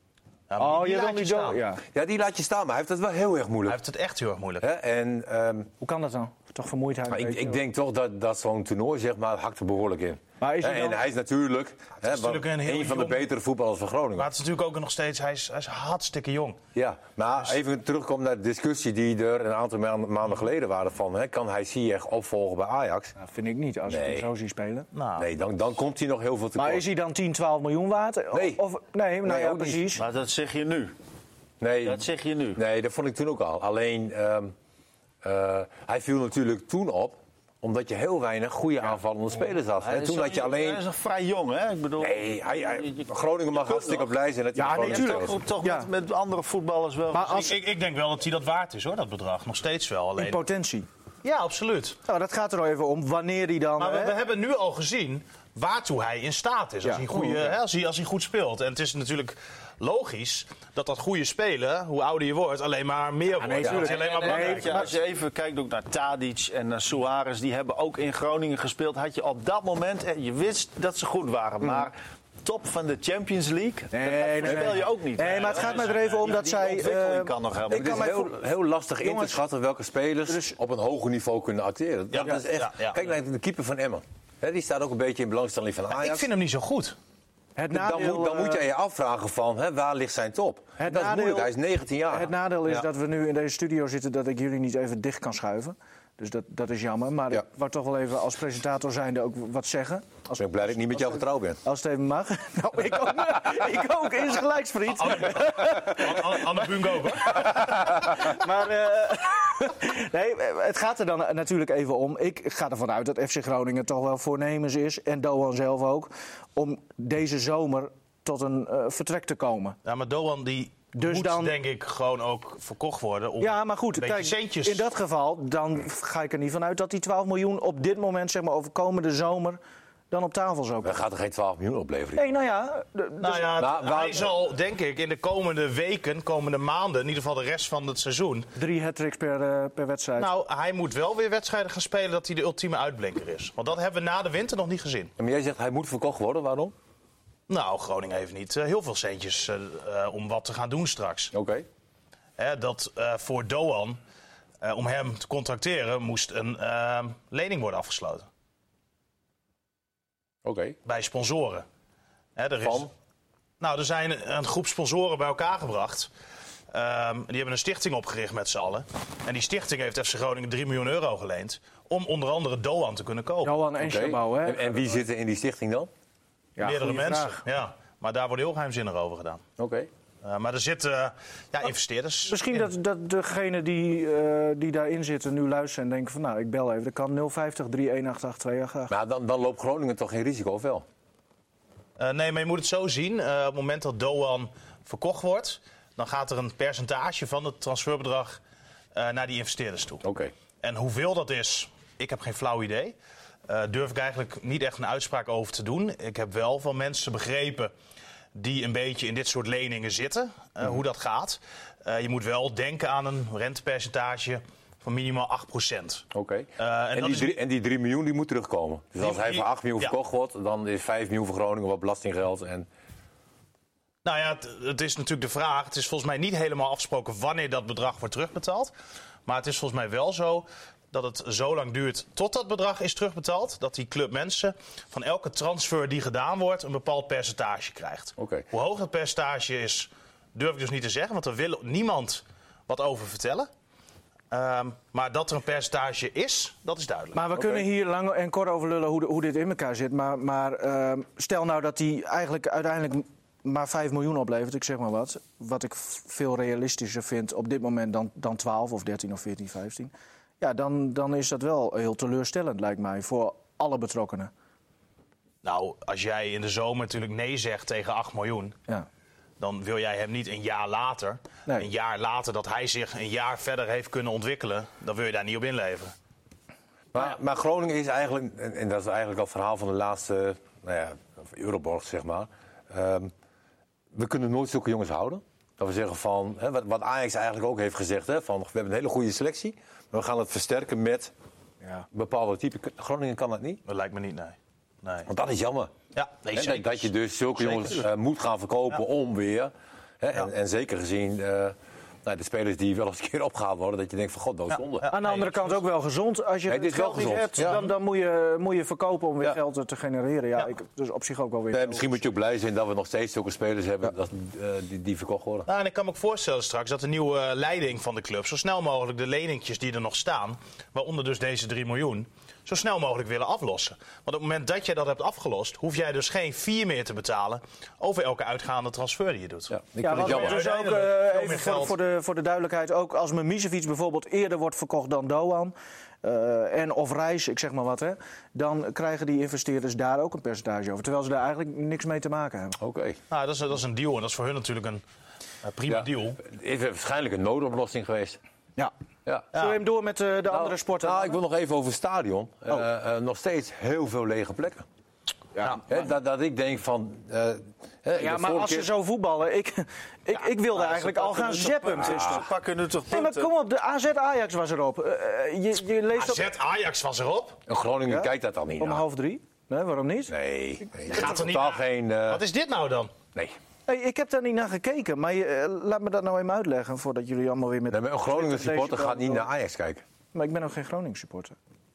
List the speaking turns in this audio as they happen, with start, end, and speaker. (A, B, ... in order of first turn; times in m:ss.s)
0:00.5-0:01.6 A
0:00.6-0:01.8 B
0:01.9-0:03.8 C
0:03.7-0:04.6 A
0:04.6-0:05.7 C
0:05.8-0:07.6 B
0:07.1-0:14.3 C
0:10.4-0:11.0 B
0:12.0-0:13.2 A
0:14.2-0:16.6 A
0:16.7-0:23.1 C
0:23.2-0:24.9 B
0:23.9-0:24.3 C
0:24.9-0:25.2 A
0:25.2-0:26.8 C
0:26.6-0:30.0 B
0:28.3-0:28.6 C
0:29.2-0:29.9 C
0:29.9-0:30.9 D
0:31.6-0:34.5 C
0:31.8-0:32.6 D
0:35.2-0:40.8 C
0:39.8-0:44.1 D
0:42.0-0:45.3 C
0:44.5-0:45.9 B
0:44.7-0:47.5 D
0:47.1-0:47.6 B
0:47.3-0:50.4 A
0:50.2-0:50.9 B
0:51.2-0:52.0 A
0:52.0-0:54.1 B
0:53.8-1:05.0 A
0:56.8-0:57.5 B
1:03.4-1:04.9 B
1:03.6-1:18.2 D
1:13.9-1:18.3 B
1:15.2-1:16.3 A
1:17.7-1:26.3 C
1:19.0-1:19.4 B
1:20.3-1:20.6 B
1:22.1-1:23.0 A
1:25.9-1:27.0 A
1:27.6-1:28.6 B
1:27.7-1:32.3 C
1:30.8-1:31.5 B
1:32.1-1:46.7 B
1:40.4-1:41.6 C
1:45.0-1:48.1 A
1:47.3-1:59.8 B
1:59.8-2:04.8 A
2:00.9-2:01.5 B
2:03.4-2:09.6 B
2:10.1-2:11.0 B
2:10.8-2:12.2 C
2:12.2-2:13.5 B
2:13.2-2:18.5 A
2:13.6-2:14.3 C
2:18.6-2:20.3 B
2:20.2-2:25.1 A
2:25.2-2:26.7 C
2:27.5-2:31.3 A
2:31.3-2:31.6 C
2:32.4-2:34.0 A
2:34.6-2:38.3 A
2:40.4-2:40.8 C
2:40.8-2:41.6 A
2:42.4-2:42.9 A
2:42.6-2:42.9 C
2:43.6-2:46.1 A
2:46.7-2:53.5 A
2:53.4-2:54.7 B
2:53.8-2:55.9 C
2:56.6-2:57.4 B
2:56.6-2:59.4 A
2:59.6-2:59.9 C
3:00.2-3:02.6 A
3:02.3-3:08.9 B
3:08.9-3:10.8 C
3:12.0-3:18.4 A
3:18.9-3:20.0 A
3:20.0-3:20.3 C
3:20.6-3:23.0 A
3:23.5-3:27.7 A
3:28.3-3:36.0 A
3:36.1-3:42.7 C
3:36.6-3:37.4 A
3:39.0-3:39.9 A
3:44.0-3:48.7 A
3:49.2-4:03.5 A
3:58.2-3:58.4 C
4:04.3-4:07.2 A
4:07.1-4:24.3 B
4:07.4-4:07.6 C
4:25.4-4:28.6 A
4:29.4-4:35.9 A
4:36.9-4:43.1 C
4:43.9-4:51.1 C
4:51.9-4:53.6 C
4:53.7-4:55.1 A
4:55.1-4:55.7 C
4:55.9-4:56.9 A
4:56.3-5:04.9 C
4:57.4-4:57.8 A
5:04.5-5:05.6 A
5:04.9-5:11.9 B
5:06.5-5:07.6 C
5:11.5-5:15.5 C
5:15.5-5:31.7 A
5:29.5-5:30.4 C
5:29.8-5:42.6 B
5:42.6-5:43.0 C
5:43.1-5:44.8 A
5:45.4-5:46.2 A
5:45.7-5:48.2 C
5:49.3-5:49.6 A
5:49.3-5:51.2 B
5:50.3-5:54.6 C
5:55.4-5:55.6 B
5:55.7-5:58.7 C
5:57.9-6:02.3 B
6:00.3-6:03.3 D
6:01.8-6:02.2 C
6:02.9-6:06.3 B
6:05.9-6:07.4 A
6:07.5-6:08.8 C
6:07.9-6:10.1 B
6:10.1-6:12.2 C
6:10.9-6:12.9 A
6:13.7-6:19.3 B
6:17.7-6:19.8 C
6:20.1-6:21.4 B